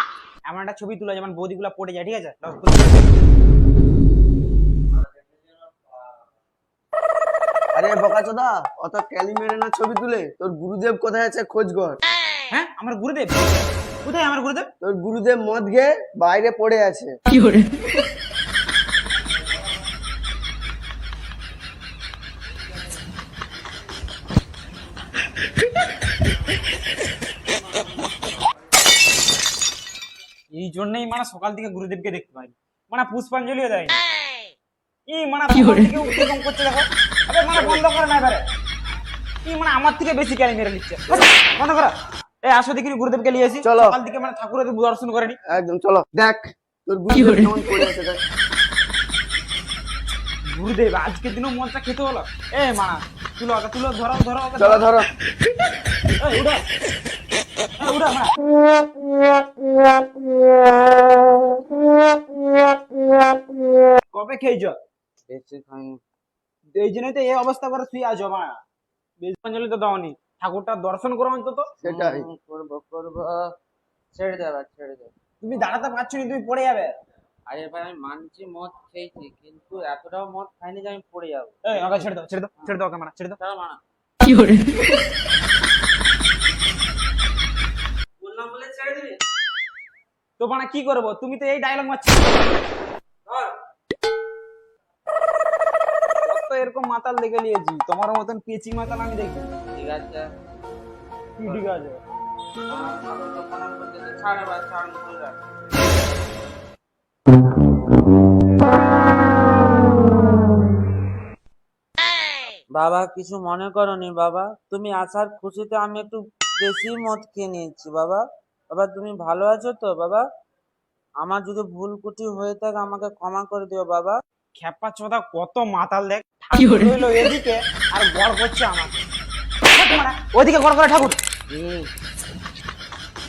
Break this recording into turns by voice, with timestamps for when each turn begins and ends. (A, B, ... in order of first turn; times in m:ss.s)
0:00.5-0:03.0 A
0:07.7-0:12.0 B
0:12.5-0:14.7 A
0:14.8-0:17.1 B
0:30.5-0:34.0 A
0:35.1-0:38.4 A
0:39.4-0:45.4 A
0:43.6-0:44.0 B
0:45.5-0:48.2 B
0:50.5-0:54.9 A
0:54.6-0:55.1 B
0:56.2-0:56.6 A
0:57.8-0:58.3 A
1:04.1-1:04.8 A
1:05.3-1:06.0 C
1:06.8-1:08.6 A
1:09.2-1:11.7 A
1:11.8-1:12.3 B
1:11.8-1:13.5 C
1:14.1-1:15.1 C
1:15.4-1:16.9 A
1:17.5-1:22.1 C
1:21.6-1:23.4 A
1:23.4-1:23.8 C
1:28.2-1:29.2 C
1:30.4-1:32.4 A
1:33.2-1:33.5 C
1:36.2-1:39.5 A
1:39.7-1:40.2 C
1:41.4-1:42.0 A
1:42.7-1:45.4 C
1:52.7-2:00.2 C
2:01.2-2:04.2 C
2:04.6-2:09.0 A
2:09.7-2:11.2 A
2:11.5-2:11.9 C